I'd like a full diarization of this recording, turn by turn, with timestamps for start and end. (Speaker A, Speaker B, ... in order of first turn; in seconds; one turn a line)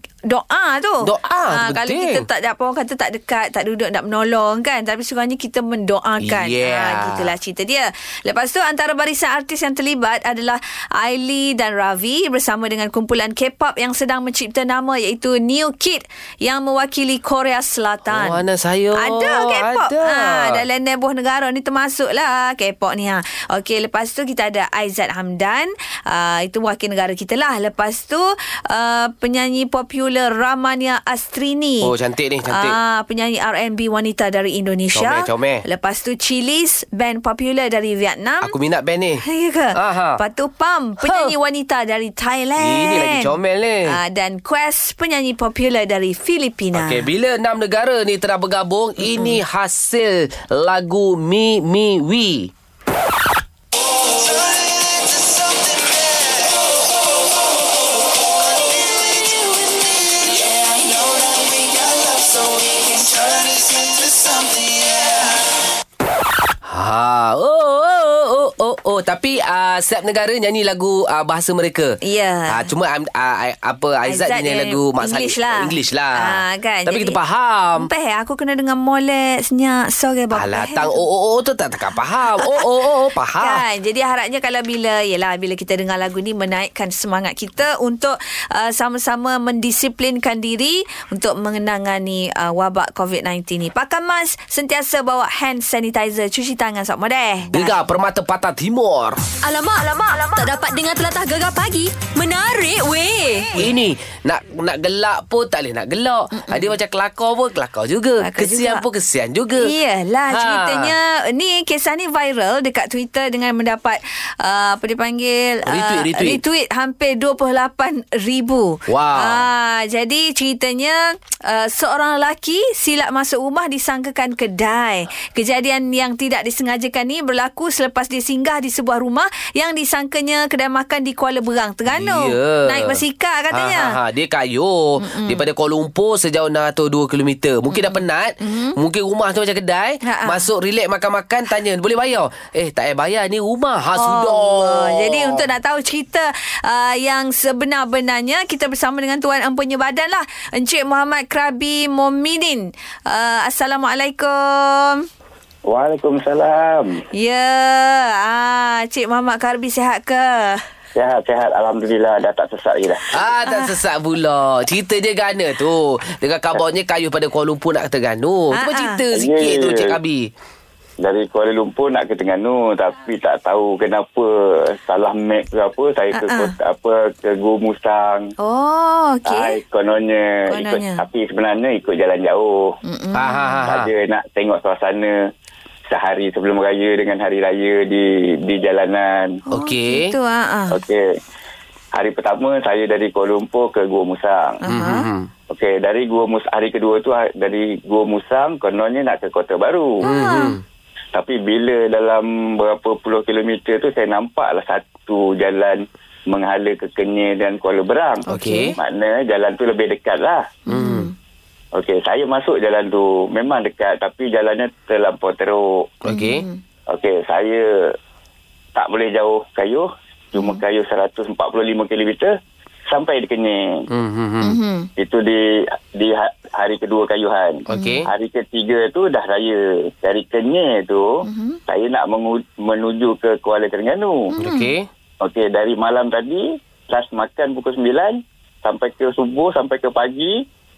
Speaker A: 0.2-18.4
Speaker B: 1.0-2.2
Speaker B: 6.2-7.3
Speaker B: 18.1-20.6
Speaker A: 19.0-31.9
Speaker B: 31.8-32.8
Speaker A: 32.5-38.5
Speaker B: 34.9-35.6
Speaker B: 38.4-39.2
Speaker A: 39.2-43.3
Speaker B: 39.7-40.2
Speaker B: 41.0-41.3
Speaker B: 42.6-44.0
Speaker A: 43.9-47.0
Speaker B: 46.7-52.5
Speaker B: 54.4-56.3
Speaker B: 59.2-60.2
Speaker B: 63.2-64.9
Speaker B: 66.6-72.0
Speaker A: 72.0-72.7
Speaker B: 72.5-77.9
Speaker A: 74.0-77.2
Speaker A: 77.8-81.0
Speaker B: 80.3-83.6
Speaker A: 82.4-82.6
Speaker A: 83.4-97.8
Speaker B: 97.5-99.2
Speaker C: 99.4-103.5
Speaker B: 103.5-109.7
Speaker A: 106.3-106.7
Speaker A: 108.2-108.8
Speaker A: 109.6-134.0
Speaker B: 110.3-110.9
Speaker B: 115.7-116.4
Speaker B: 118.9-119.4
Speaker B: 131.9-145.4
Speaker A: 135.0-135.4
Speaker A: 137.7-138.8
Speaker A: 140.0-140.4
Speaker A: 143.9-155.1
Speaker D: 155.7-157.0
Speaker A: 157.2-160.6
Speaker D: 160.9-163.2
Speaker B: 163.1-170.3
Speaker A: 168.5-169.0
Speaker D: 169.1-170.0
Speaker D: 171.0-178.3
Speaker A: 176.1-176.5
Speaker A: 178.4-179.6
Speaker D: 179.2-182.7
Speaker A: 180.5-181.0
Speaker A: 182.8-183.6
Speaker B: 183.1-183.9
Speaker D: 183.6-185.1
Speaker D: 185.9-189.4
Speaker A: 189.5-190.8
Speaker B: 189.5-190.1
Speaker D: 190.7-191.0
Speaker D: 191.9-194.6
Speaker A: 194.6-195.1
Speaker B: 194.7-195.3
Speaker D: 195.5-200.0
Speaker A: 200.0-200.6
Speaker B: 200.0-200.6
Speaker D: 201.1-208.2
Speaker B: 208.3-208.8
Speaker A: 208.3-208.7
Speaker D: 208.8-210.4
Speaker B: 210.7-211.1
Speaker A: 210.7-211.1
Speaker D: 211.7-215.6
Speaker B: 216.0-216.4
Speaker A: 216.1-216.6
Speaker D: 216.9-217.6
Speaker D: 218.7-222.3
Speaker A: 220.3-220.6
Speaker D: 222.9-223.6
Speaker B: 223.9-224.6
Speaker A: 224.4-224.9
Speaker D: 225.0-225.4
Speaker D: 225.9-231.1
Speaker B: 227.7-228.1
Speaker A: 227.7-228.0
Speaker A: 231.2-231.6
Speaker D: 231.7-234.3
Speaker A: 234.3-234.7
Speaker B: 234.4-234.9
Speaker D: 235.2-240.3